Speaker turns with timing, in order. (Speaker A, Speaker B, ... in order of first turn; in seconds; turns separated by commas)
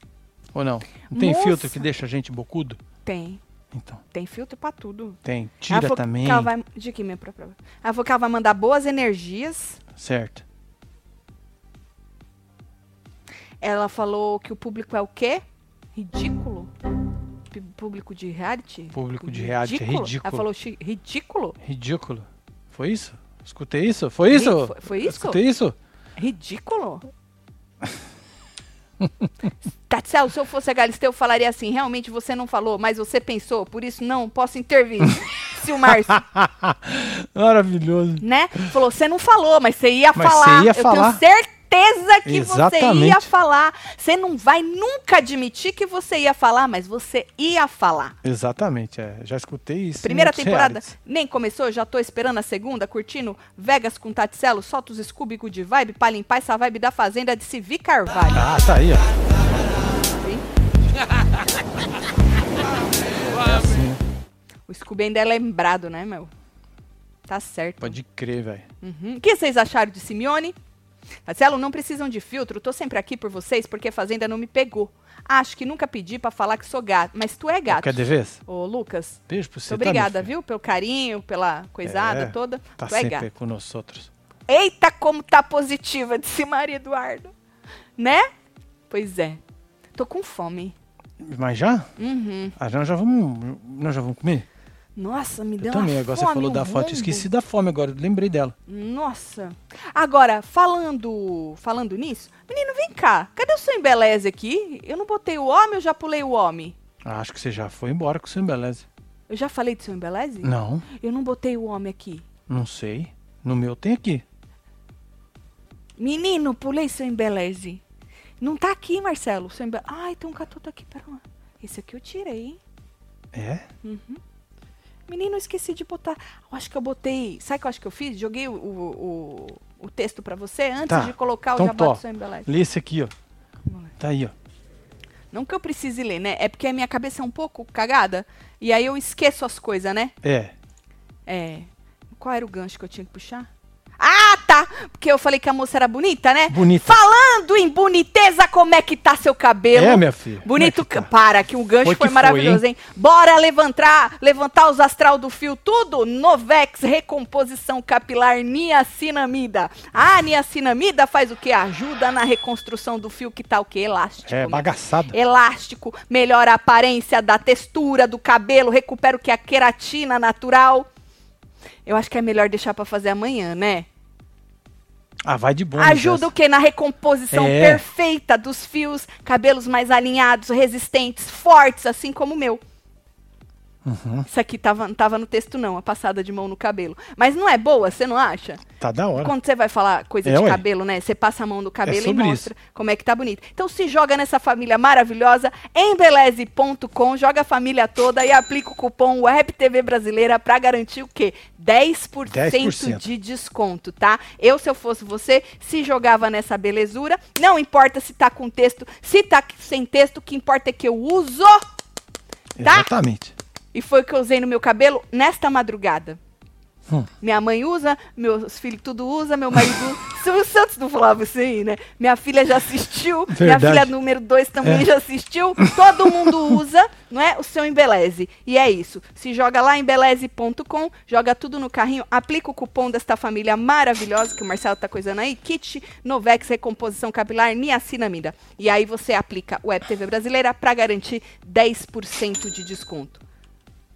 Speaker A: 0.5-2.8, Speaker B: 1.1-1.9, Speaker B: 3.0-3.4, Speaker A: 3.7-4.0, Speaker B: 4.1-9.8, Speaker A: 5.2-6.5, Speaker A: 10.0-10.4, Speaker B: 13.6-15.4, Speaker B: 15.9-16.7, Speaker B: 17.5-21.6, Speaker A: 18.9-20.4, Speaker A: 21.6-25.7, Speaker B: 24.3-25.4, Speaker B: 26.2-27.1, Speaker B: 29.9-36.2, Speaker A: 35.9-38.6, Speaker B: 38.2-48.1, Speaker A: 40.1-41.2, Speaker A: 42.2-43.3, Speaker A: 48.2-50.9, Speaker B: 50.0-58.4, Speaker A: 58.3-59.8, Speaker B: 60.1-60.4, Speaker A: 63.2-64.0, Speaker B: 64.7-66.3, Speaker B: 67.3-68.0, Speaker A: 67.8-68.7, Speaker B: 68.8-70.5, Speaker B: 71.2-83.3, Speaker A: 77.7-78.4, Speaker A: 79.3-80.3, Speaker A: 81.8-84.1, Speaker B: 84.5-87.3, Speaker B: 88.0-88.3, Speaker B: 88.9-89.4, Speaker B: 90.0-90.7, Speaker A: 91.2-91.9, Speaker B: 92.0-92.5, Speaker A: 92.6-94.5, Speaker B: 95.0-97.2, Speaker A: 95.6-98.5, Speaker B: 98.7-106.8, Speaker A: 107.0-108.8, Speaker B: 109.3-112.2, Speaker A: 110.4-110.9, Speaker A: 112.5-114.2, Speaker B: 116.0-117.8, Speaker B: 118.4-122.6, Speaker A: 123.3-123.7, Speaker B: 123.8-124.2, Speaker B: 125.1-132.5, Speaker A: 130.9-133.1, Speaker A: 134.0-134.3, Speaker B: 135.3-140.1, Speaker A: 140.2-140.5, Speaker B: 141.3-143.5, Speaker B: 144.0-170.9, Speaker A: 146.5-147.0, Speaker A: 149.7-151.1, Speaker A: 151.8-152.6, Speaker A: 164.2-165.2, Speaker B: 171.8-173.9, Speaker A: 175.2-176.3, Speaker B: 175.8-182.6, Speaker A: 177.3-177.8, Speaker A: 183.8-184.3, Speaker B: 184.3-188.6, Speaker A: 188.8-189.3, Speaker B: 189.2-211.6, Speaker A: 190.2-190.6, Speaker A: 191.8-192.5, Speaker A: 202.3-203.0, Speaker A: 212.6-213.3, Speaker B: 212.6-212.9, Speaker B: 213.7-216.2, Speaker B: 217.2-243.2, Speaker A: 223.3-223.9